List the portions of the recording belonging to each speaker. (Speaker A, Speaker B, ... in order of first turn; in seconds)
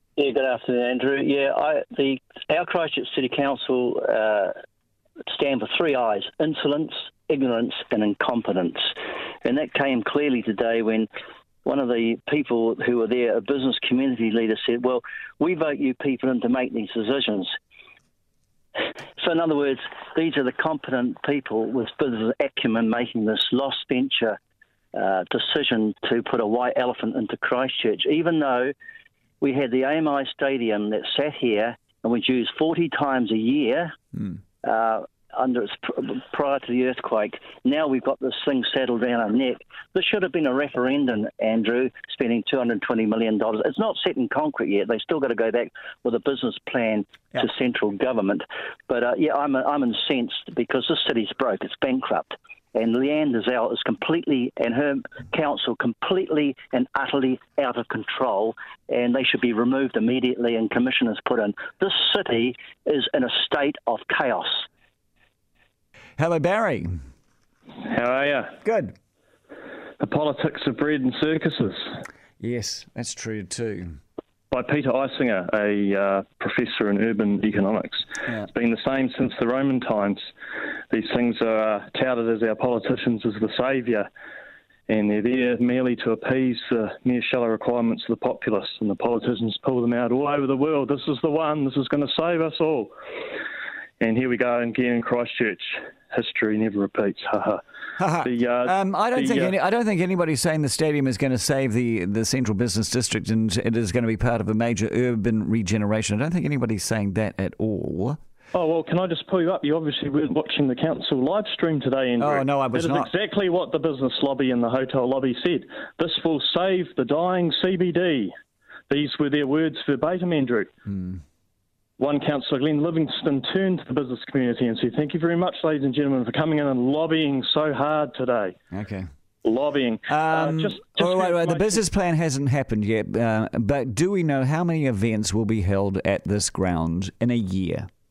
Speaker A: 0.2-4.5, 5.3-8.9, 9.4-11.1, 11.7-17.5, 19.2-24.4, 24.9-28.7, 29.4-33.9, 34.6-64.7
Speaker B: 66.2-66.9, 68.6-69.0, 72.4-74.0, 98.0-108.2, 112.2-113.1, 128.7-129.1, 130.1-137.9
Speaker C: 67.9-68.6, 70.0-71.9, 74.5-80.3, 80.9-84.1, 84.9-92.9, 94.0-97.6, 98.2-99.5, 108.5-118.3, 118.9-120.7, 122.0-128.6, 129.4-131.8